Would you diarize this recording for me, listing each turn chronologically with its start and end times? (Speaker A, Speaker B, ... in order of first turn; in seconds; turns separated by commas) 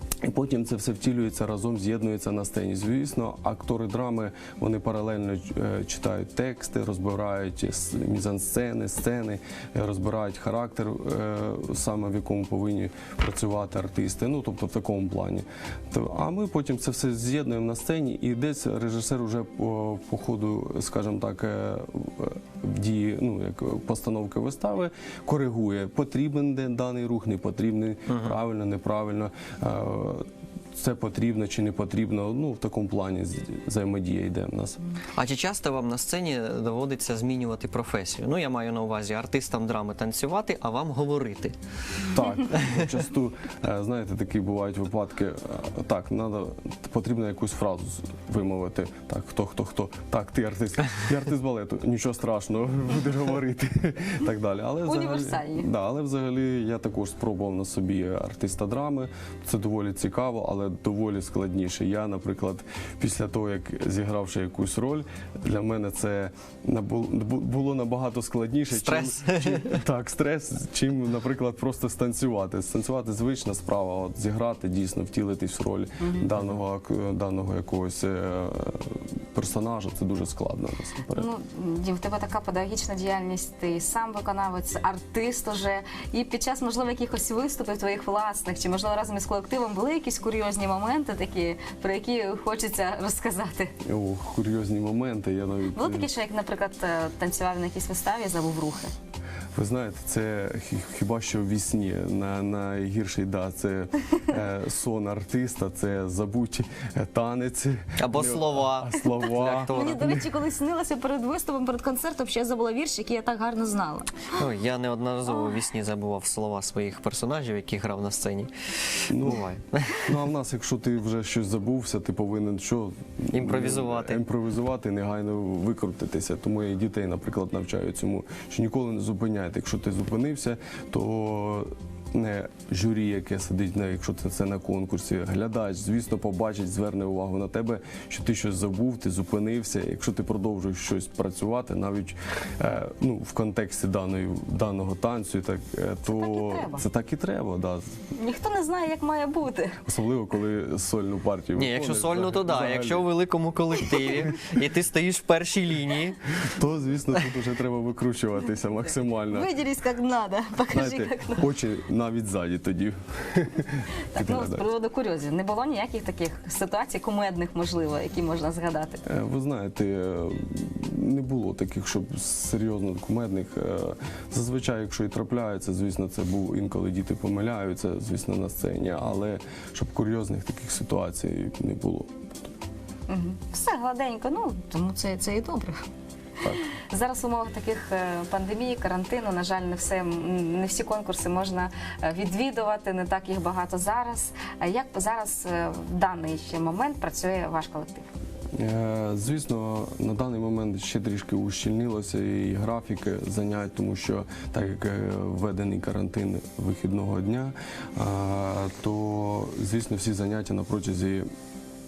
Speaker A: 0.2-34.8, Speaker B: 28.1-28.4, Speaker B: 35.1-41.5, Speaker A: 42.1-81.3, Speaker C: 54.8-55.7, Speaker B: 68.7-69.8, Speaker C: 76.0-76.3, Speaker C: 81.2-93.7, Speaker A: 93.8-96.1, Speaker C: 95.7-98.9, Speaker A: 99.5-110.2, Speaker B: 108.0-110.2, Speaker C: 109.7-114.3, Speaker B: 114.3-118.5, Speaker A: 119.1-119.5, Speaker B: 119.1-120.1, Speaker A: 120.0-147.9, Speaker B: 123.3-124.2, Speaker C: 146.1-146.8, Speaker C: 148.2-149.8, Speaker A: 149.8-153.1, Speaker B: 151.6-156.3, Speaker A: 156.4-159.5, Speaker C: 159.3-161.5, Speaker A: 160.7-164.7, Speaker C: 164.1-169.0, Speaker A: 169.1-182.5, Speaker C: 183.1-185.8, Speaker C: 186.7-198.1, Speaker A: 198.6-211.3